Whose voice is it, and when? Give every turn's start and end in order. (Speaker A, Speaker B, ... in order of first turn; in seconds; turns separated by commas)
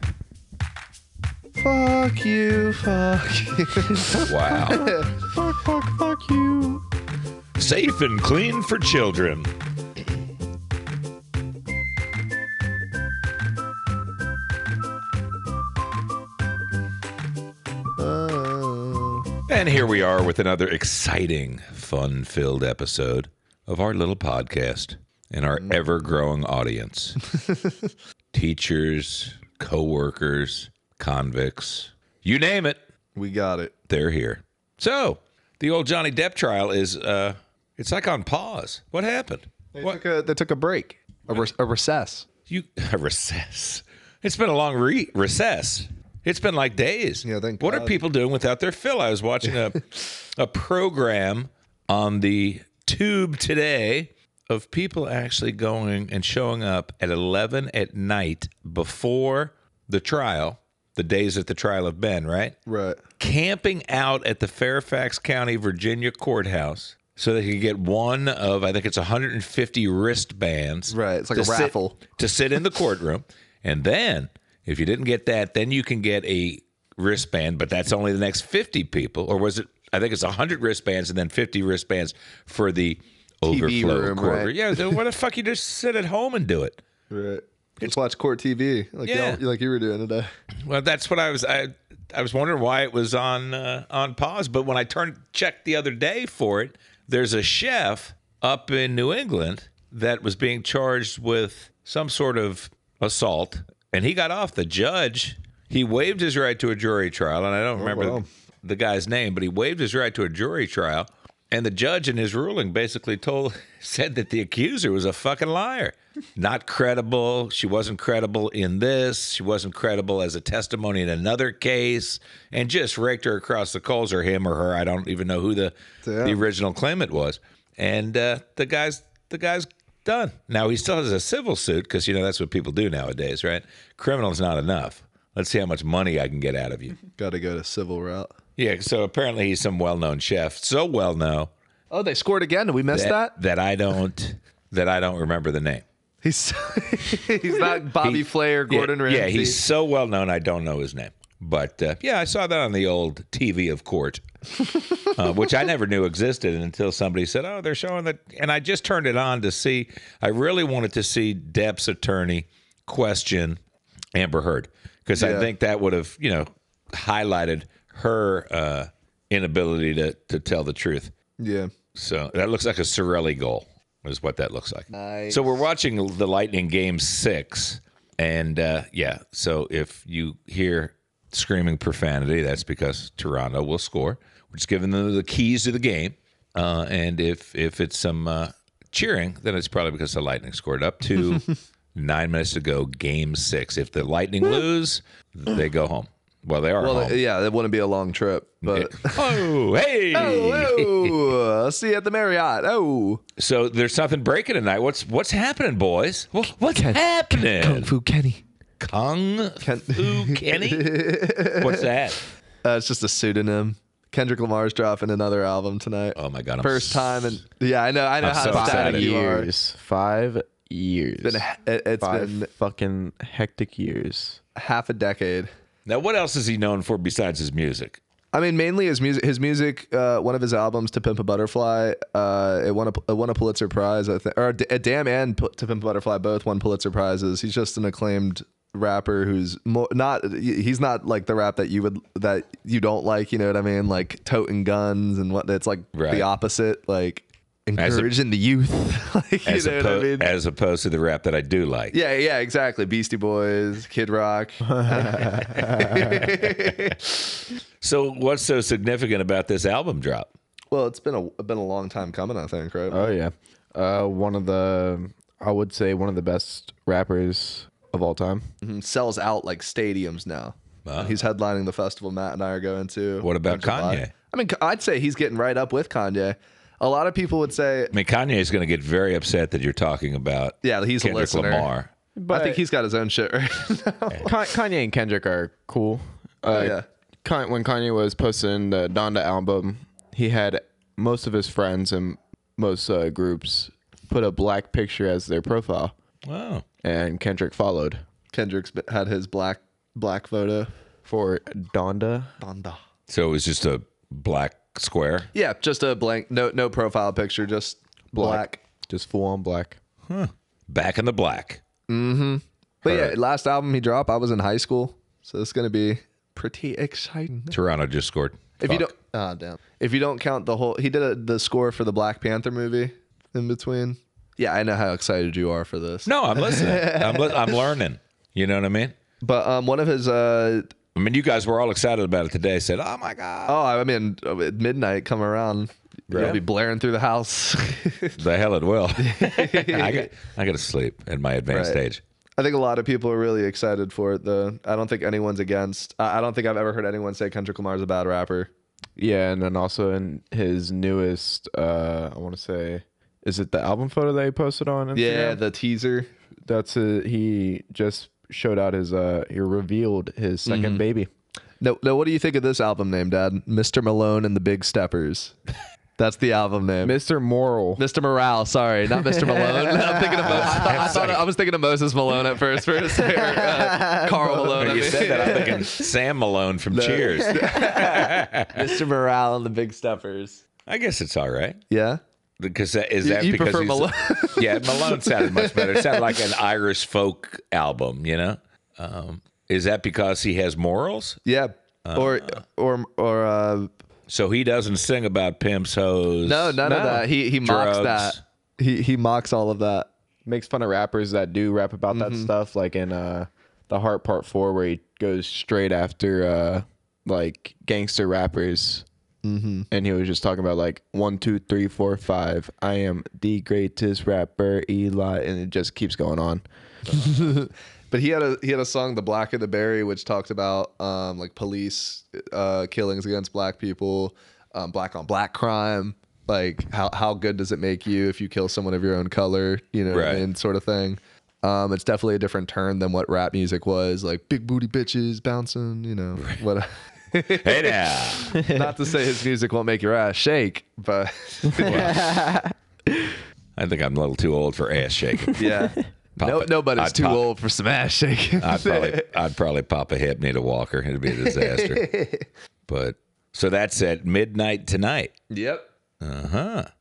Speaker A: 1.6-5.1, Speaker B: 4.2-4.9, Speaker C: 4.7-6.8, Speaker B: 7.6-9.5, Speaker A: 18.0-19.2, Speaker B: 19.5-27.2, Speaker A: 27.3-27.9, Speaker B: 28.3-32.8, Speaker A: 33.1-33.7, Speaker B: 33.9-40.0, Speaker A: 39.7-42.3, Speaker B: 42.5-62.5, Speaker A: 47.2-48.0, Speaker A: 62.6-63.0, Speaker B: 63.2-86.8, Speaker A: 70.9-72.0, Speaker A: 83.4-85.0, Speaker A: 87.1-90.3, Speaker B: 89.1-89.4, Speaker B: 90.7-136.9, Speaker A: 107.8-108.2, Speaker A: 126.0-126.4, Speaker A: 137.2-138.3, Speaker B: 138.6-141.5, Speaker A: 141.9-143.3, Speaker B: 142.9-145.8, Speaker A: 146.2-149.6, Speaker B: 147.9-154.2, Speaker A: 154.6-155.2, Speaker B: 155.1-163.6, Speaker B: 164.1-171.1, Speaker A: 165.1-165.5, Speaker A: 171.4-171.7, Speaker B: 171.9-197.2, Speaker A: 174.9-175.7, Speaker A: 196.8-199.5, Speaker B: 198.7-201.2, Speaker A: 200.1-203.2, Speaker B: 203.4-207.9, Speaker A: 206.7-208.4, Speaker B: 208.8-212.2, Speaker A: 209.6-211.9, Speaker A: 212.6-219.5, Speaker B: 216.2-217.4, Speaker B: 218.2-219.1, Speaker C: 218.4-221.4, Speaker A: 221.2-222.5, Speaker C: 222.0-224.4, Speaker A: 224.6-225.5, Speaker B: 225.8-228.0, Speaker A: 228.3-250.3, Speaker B: 245.9-246.3, Speaker B: 247.8-248.1, Speaker B: 249.4-251.9, Speaker A: 251.9-257.4, Speaker C: 254.7-256.2, Speaker B: 257.8-260.3, Speaker A: 260.7-263.1, Speaker C: 262.9-268.4, Speaker A: 268.6-277.9, Speaker B: 270.8-271.2, Speaker B: 273.2-274.1, Speaker B: 277.9-281.9, Speaker A: 280.6-281.7, Speaker C: 282.1-282.6, Speaker A: 282.3-284.4, Speaker C: 284.2-295.9, Speaker A: 286.5-286.9, Speaker B: 296.2-296.6, Speaker C: 296.8-298.0, Speaker A: 298.3-300.7, Speaker C: 301.1-302.3, Speaker A: 302.4-302.8, Speaker B: 303.1-305.3, Speaker A: 305.3-308.6, Speaker C: 308.1-309.8, Speaker B: 310.1-311.6, Speaker A: 311.9-317.6, Speaker B: 312.8-313.1, Speaker B: 317.5-318.9, Speaker A: 318.6-327.6, Speaker B: 326.1-328.9, Speaker A: 329.2-330.7, Speaker B: 330.9-333.6, Speaker A: 333.4-338.2, Speaker B: 336.1-336.4, Speaker B: 338.2-342.0, Speaker A: 339.0-340.1, Speaker A: 341.5-341.8, Speaker A: 342.4-348.5, Speaker C: 349.0-355.4, Speaker A: 354.9-356.1, Speaker C: 356.5-361.1, Speaker A: 360.4-360.8, Speaker A: 361.6-365.4, Speaker A: 366.0-366.9, Speaker C: 366.8-367.8, Speaker A: 367.8-375.8, Speaker C: 369.3-370.9, Speaker B: 370.2-371.3, Speaker C: 373.0-375.6, Speaker B: 374.6-378.6, Speaker A: 376.7-380.4, Speaker C: 377.3-377.8, Speaker B: 380.7-381.6, Speaker A: 381.7-382.0, Speaker B: 382.4-391.2, Speaker A: 383.0-386.2, Speaker A: 391.2-393.7, Speaker B: 391.8-392.4, Speaker B: 394.1-398.2, Speaker A: 396.2-399.9, Speaker C: 396.6-397.0, Speaker C: 400.2-408.8, Speaker A: 401.9-402.3, Speaker A: 409.2-409.7, Speaker C: 409.7-416.4, Speaker A: 416.9-442.0, Speaker B: 429.9-430.3, Speaker B: 436.2-436.4, Speaker B: 437.3-438.3, Speaker C: 438.3-438.7, Speaker C: 441.4-443.2, Speaker B: 441.6-442.1, Speaker B: 443.6-445.5, Speaker C: 445.3-445.7, Speaker A: 445.3-449.1, Speaker B: 446.2-447.3, Speaker B: 448.4-451.9, Speaker A: 451.1-452.2, Speaker B: 452.7-455.1, Speaker A: 455.3-455.7, Speaker B: 456.0-456.7